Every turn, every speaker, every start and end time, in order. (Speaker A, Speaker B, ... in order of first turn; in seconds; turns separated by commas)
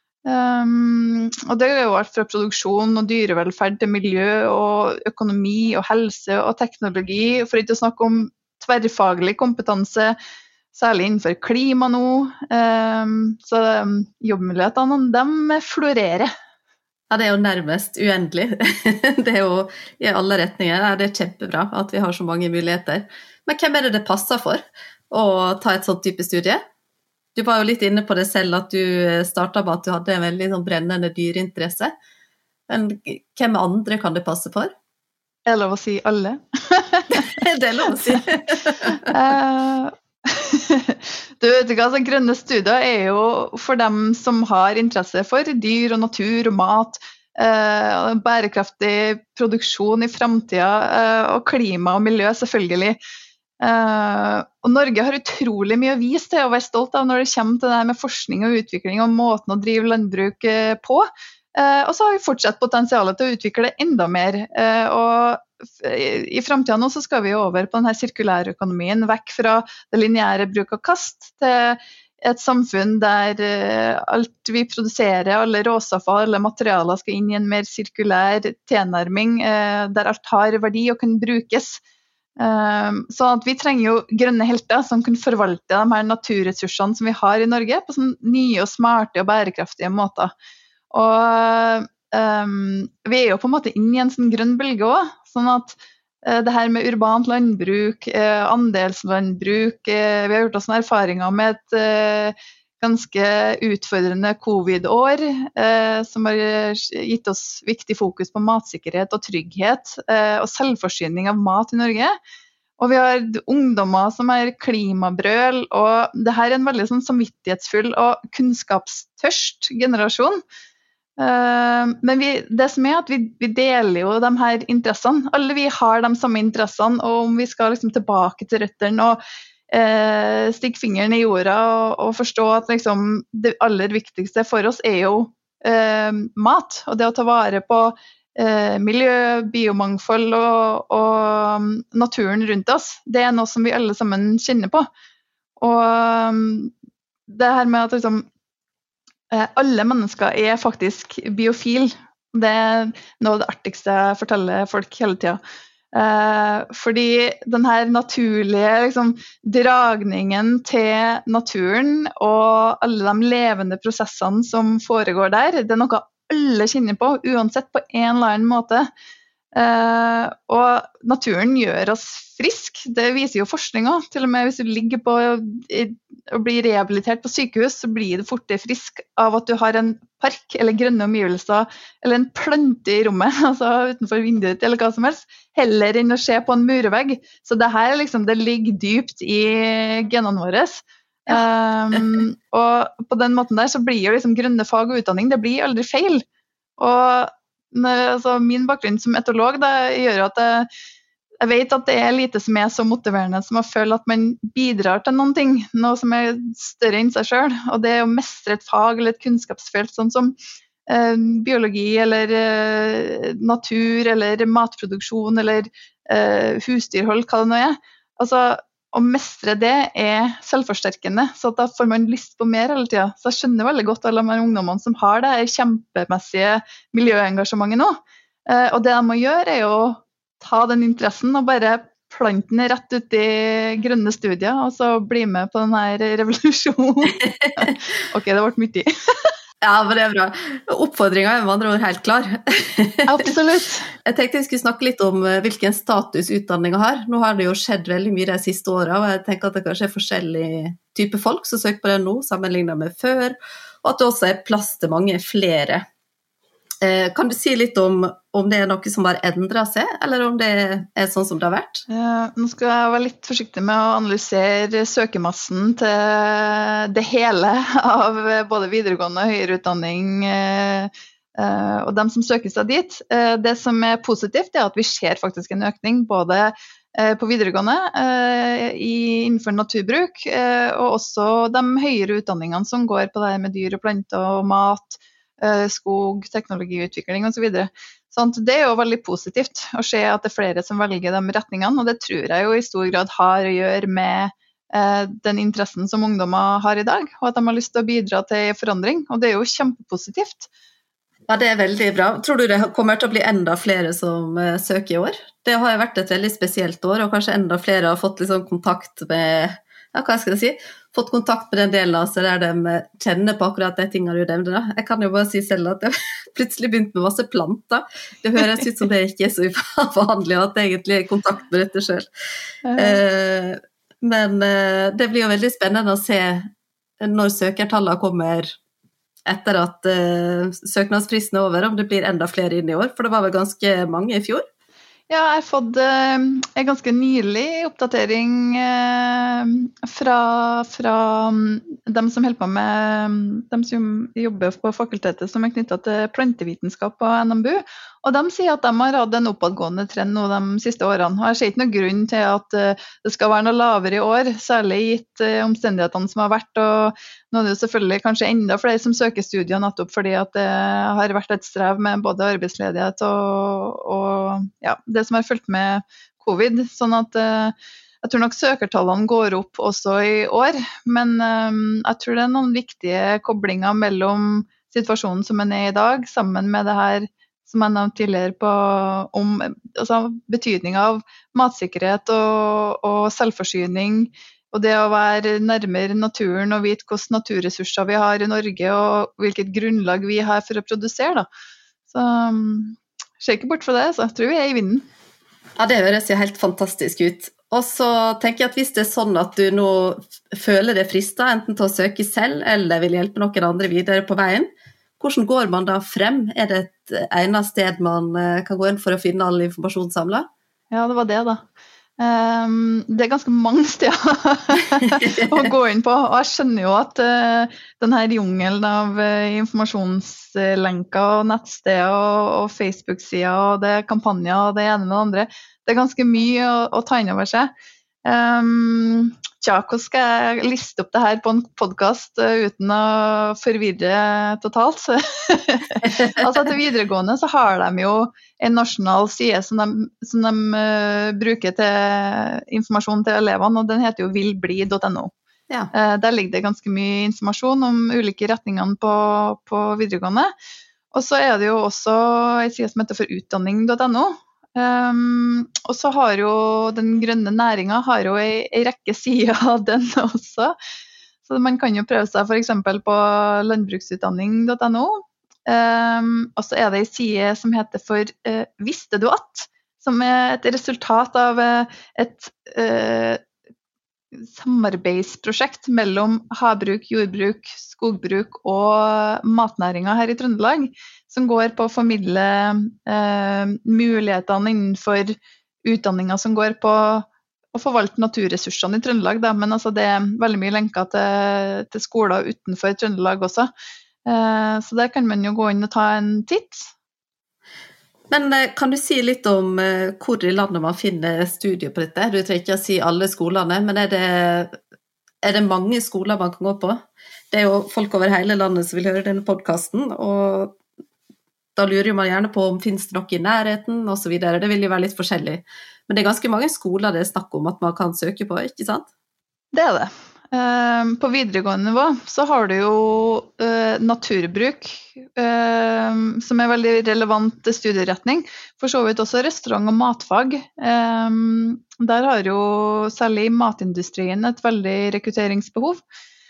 Speaker A: 0.2-10.2, Speaker A: 10.7-16.3, Speaker B: 17.1-26.6, Speaker B: 27.4-31.9, Speaker B: 32.7-34.7, Speaker A: 35.5-37.2, Speaker B: 37.1-39.1, Speaker A: 37.9-38.2, Speaker A: 38.9-53.0, Speaker A: 53.6-81.8, Speaker A: 82.4-90.3, Speaker A: 90.9-112.1, Speaker A: 112.8-120.4, Speaker A: 121.2-144.9, Speaker A: 145.6-146.7, Speaker A: 147.3-148.2, Speaker A: 149.3-155.4, Speaker A: 155.9-168.9, Speaker A: 169.5-196.2, Speaker A: 196.8-200.7, Speaker A: 201.4-210.4, Speaker A: 210.9-239.3, Speaker B: 237.1-237.8, Speaker B: 239.6-243.3, Speaker A: 243.1-243.9, Speaker B: 244.1-255.8, Speaker B: 256.8-261.9, Speaker A: 261.9-300.5, Speaker B: 301.3-322.1, Speaker A: 322.6-323.0, Speaker B: 322.8-326.5, Speaker B: 327.0-328.5, Speaker B: 329.2-334.4, Speaker A: 335.1-391.2, Speaker A: 391.9-394.9, Speaker B: 395.6-410.3, Speaker A: 410.7-411.4, Speaker A: 412.0-427.5, Speaker B: 414.8-415.5, Speaker A: 428.0-445.1, Speaker B: 435.8-436.1, Speaker A: 445.7-450.3, Speaker A: 450.9-460.5, Speaker A: 461.2-473.2, Speaker A: 474.1-493.5, Speaker A: 494.1-496.7, Speaker B: 498.1-504.6, Speaker B: 505.2-510.6, Speaker B: 511.6-518.9, Speaker A: 519.5-535.8